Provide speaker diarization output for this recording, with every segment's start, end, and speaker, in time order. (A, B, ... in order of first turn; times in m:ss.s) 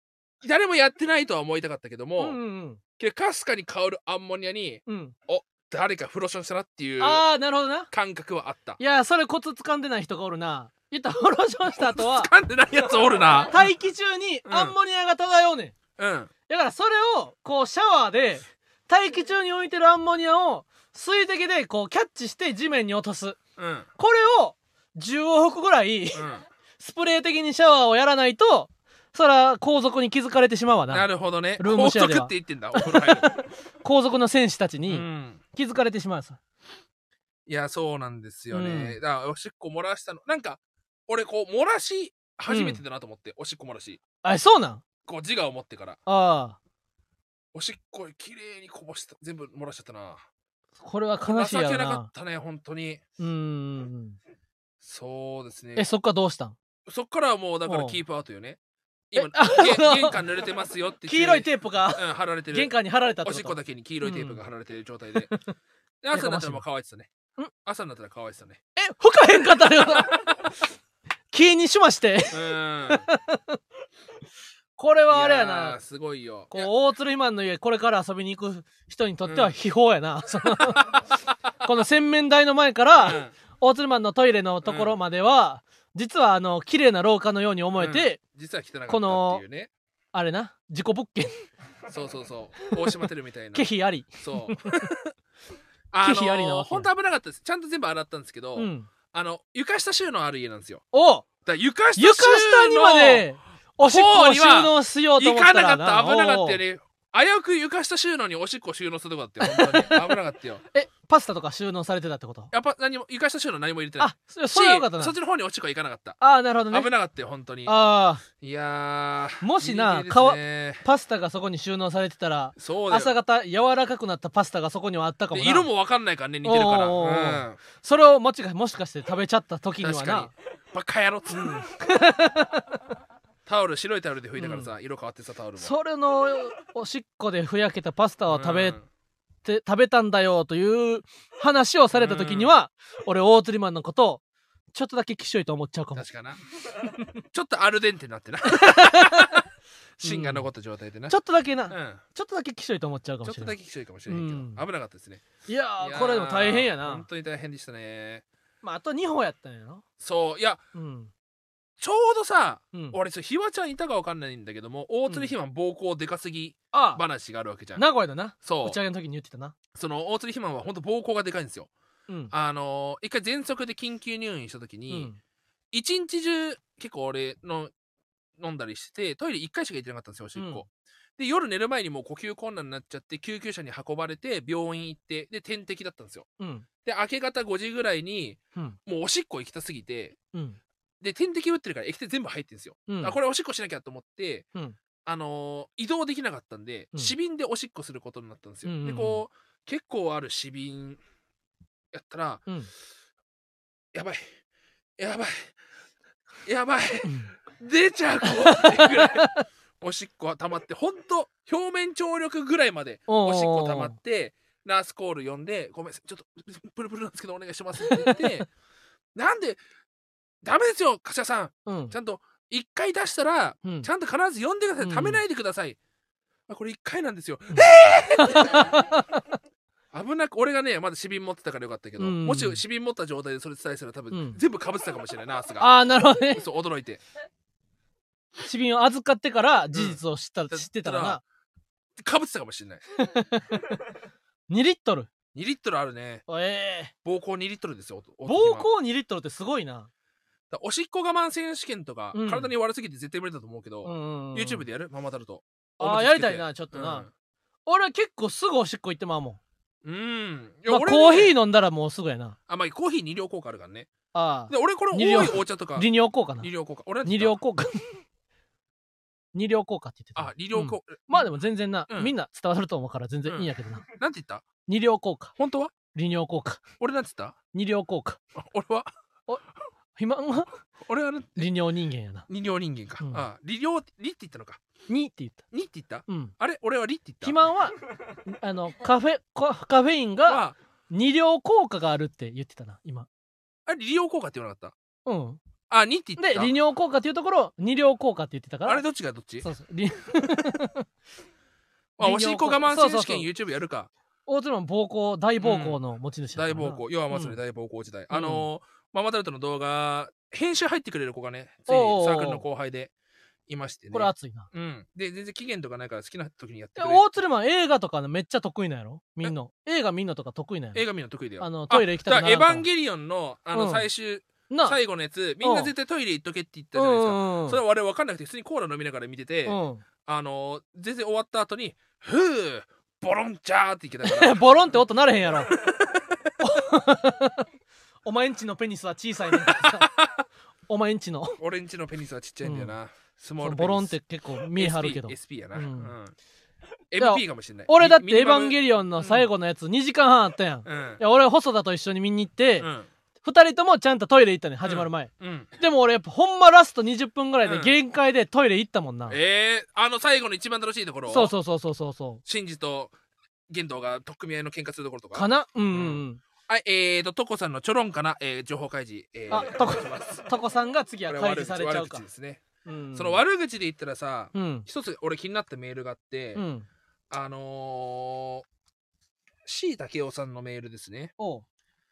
0:00.4-0:02.4 A
0:02.2-0:02.8 B
0:03.0-0:07.3 A
0:04.9-0:05.1 B
0:07.0-0:07.9 B
0:07.9-0:08.8 A
0:08.8-0:12.3 B
0:11.8-0:13.6 A
0:13.4-0:15.8 B
0:14.5-0:14.7 A
0:16.0-0:16.3 A
0:16.5-0:23.4 B
0:23.6-0:23.9 A
0:24.0-0:26.2 B
0:26.1-0:26.4 A
0:26.8-0:31.1 B
0:30.9-0:33.4 A
0:31.6-0:33.3 B
0:33.8-0:36.4 B
0:34.9-0:35.4 A
0:37.5-0:44.0 A
0:38.5-0:39.0 B
0:42.5-0:42.8 B
0:44.2-0:44.8 B
0:45.1-0:46.0 A
0:46.1-0:46.6 B
0:47.5-0:50.2 A
0:50.8-0:52.1 B
0:51.2-0:53.0 A
0:53.2-0:54.2 B
0:54.8-0:55.9 A
0:55.8-0:56.6 B
0:56.9-0:58.6 A
0:57.7-0:58.0 B
0:59.1-1:05.4 A
0:59.1-1:00.2 B
1:01.1-1:04.4 B
1:06.0-1:07.1 A
1:06.1-1:06.6 B
1:07.6-1:08.6 A
1:08.8-1:10.3 B
1:11.3-1:13.6 B
1:12.3-1:13.1 A
1:14.8-1:15.8 B
1:15.1-1:16.7 A
1:16.5-1:21.0 B
1:19.2-1:19.5 A
1:20.7-1:21.0 A
1:21.6-1:28.2 B
1:23.0-1:23.3 A
1:24.6-1:24.9 A
1:27.8-1:29.7 A
1:28.9-1:29.4 B
1:30.1-1:31.3 B
1:31.9-1:35.0 A
1:33.5-1:34.7 B
1:35.9-1:40.8 A
1:36.0-1:36.9 B
1:38.6-1:38.9 B
1:40.9-1:41.3 B
1:41.4-1:43.2 A
1:42.0-1:46.6 B
1:43.8-1:50.6 A
1:49.4-1:50.1 B
1:50.7-1:52.5 B
1:52.5-1:56.2 A
1:54.0-1:55.1 B
1:56.2-1:56.9 B
1:56.7-1:57.7 A
1:57.6-1:58.2 B
1:58.3-2:00.8 A
1:59.4-2:05.7 B
2:02.6-2:03.1 A
2:05.3-2:07.6 A
2:06.4-2:10.3 B
2:09.8-2:11.7 A
2:11.4-2:12.8 B
2:13.4-2:15.7 A
2:14.4-2:14.7 B
2:15.6-2:18.8 B
2:18.3-2:18.8 A
2:19.4-2:24.2 B
2:21.9-2:22.5 A
2:24.7-2:26.0 B
2:26.0-2:26.4 A
2:27.0-2:29.4 A
2:28.5-2:29.4 B
2:30.0-2:31.2 A
2:30.0-2:30.5 B
2:31.1-2:33.5 B
2:31.7-2:32.0 A
2:33.2-2:38.2 A
2:34.1-2:34.6 B
2:35.5-2:37.0 B
2:38.6-2:39.8 B
2:40.0-2:40.6 A
2:40.7-2:41.1 B
2:41.8-2:47.8 A
2:42.7-2:43.0 B
2:46.7-2:47.0 B
2:47.8-2:49.5 B
2:48.4-2:48.8 A
2:49.7-2:51.7 A
2:52.3-2:55.1 A
2:54.9-2:55.2 B
2:55.7-2:57.7 A
2:58.4-3:06.3 A
3:00.4-3:00.6 B
3:06.4-3:06.6 B
3:06.8-3:10.2 A
3:10.3-3:10.6 B
3:11.0-3:14.5 A
3:12.9-3:13.2 B
3:15.0-3:21.0 A
3:18.6-3:19.2 B
3:21.9-3:22.5 A
3:23.9-3:24.3 A
3:25.0-3:25.6 A
3:26.4-3:38.5 A
3:27.0-3:27.3 B
3:28.3-3:29.4 B
3:33.1-3:33.9 B
3:37.8-3:38.4 B
3:39.1-3:39.6 A
3:40.4-3:45.8 A
3:41.7-3:41.9 B
3:44.8-3:45.2 B
3:46.5-3:48.7 A
3:47.5-3:49.2 B
3:49.9-3:55.7 A
3:52.0-3:52.6 B
3:54.1-3:54.4 B
3:55.6-3:56.4 B
3:56.3-3:57.0 A
3:58.4-4:01.2 B
3:59.7-4:00.0 A
4:00.5-4:01.2 A
4:02.0-4:02.8 A
4:03.0-4:03.6 B
4:04.5-4:05.1 B
4:05.3-4:06.2 A
4:06.3-4:06.9 B
4:07.0-4:08.7 A
4:08.2-4:09.9 B
4:10.5-4:17.1 A
4:12.1-4:12.5 B
4:13.8-4:14.6 B
4:15.8-4:17.1 B
4:17.6-4:19.4 B
4:19.8-4:21.3 A
4:20.7-4:22.4 B
4:22.5-4:23.9 A
4:24.1-4:26.5 B
4:24.5-4:25.9 A
4:26.4-4:27.4 A
4:27.0-4:28.0 B
4:29.3-4:33.8 B
4:30.1-4:31.3 A
4:33.2-4:34.4 A
4:34.6-4:35.4 B
4:35.4-4:35.7 A
4:35.9-4:36.6 B
4:36.8-4:37.4 A
4:37.5-4:38.2 B
4:38.4-4:38.9 A
4:40.0-4:40.6 B
4:40.8-4:41.5 A
4:41.4-4:42.2 B
4:42.3-4:44.6 A
4:44.9-4:45.4 B
4:45.5-4:47.4 A
4:46.1-4:46.3 B
4:47.2-4:53.1 B
4:50.3-4:50.6 A
4:53.7-4:54.7 A
4:55.0-4:55.4 B
4:55.7-4:56.5 A
4:56.2-4:58.8 B
4:58.6-4:59.5 A
4:59.4-5:00.8 B
5:02.0-5:03.9 A
5:02.0-5:03.3 B
5:04.3-5:07.4 B
5:05.4-5:05.8 A
5:06.4-5:12.9 A
5:08.1-5:08.5 B
5:11.7-5:12.4 B
5:13.5-5:17.1 A
5:13.9-5:14.5 B
5:16.8-5:20.8 B
5:20.7-5:34.5 A
5:21.4-5:22.6 B
5:23.5-5:23.8 B
5:24.5-5:24.8 B
5:25.4-5:25.7 B
5:26.7-5:27.6 B
5:29.4-5:29.8 B
5:34.0-5:35.6 B
5:35.5-5:36.0 A
5:36.4-5:37.4 B
5:38.0-5:39.9 B
5:39.4-5:40.2 A
5:40.7-5:41.4 B
5:41.4-5:43.9 A
5:42.4-5:42.7 B
5:43.4-5:45.9 B
5:44.5-5:46.1 A
5:46.9-5:49.3 A
5:47.0-5:52.7 B
5:50.6-5:51.0 A
5:52.6-5:52.9 A
5:53.2-5:59.2 B
5:54.6-5:55.5 A
5:57.4-5:57.7 A
5:59.1-6:01.3 A
6:01.1-6:02.2 B
6:02.2-6:02.9 A
6:03.5-6:10.3 A
6:05.1-6:06.2 B
6:09.3-6:12.0 B
6:11.1-6:12.4 A
6:12.6-6:13.2 B
6:12.9-6:16.4 A
6:14.3-6:14.6 B
6:16.3-6:16.6 B
6:17.1-6:18.4 A
6:19.4-6:21.1 A
6:21.2-6:21.4 B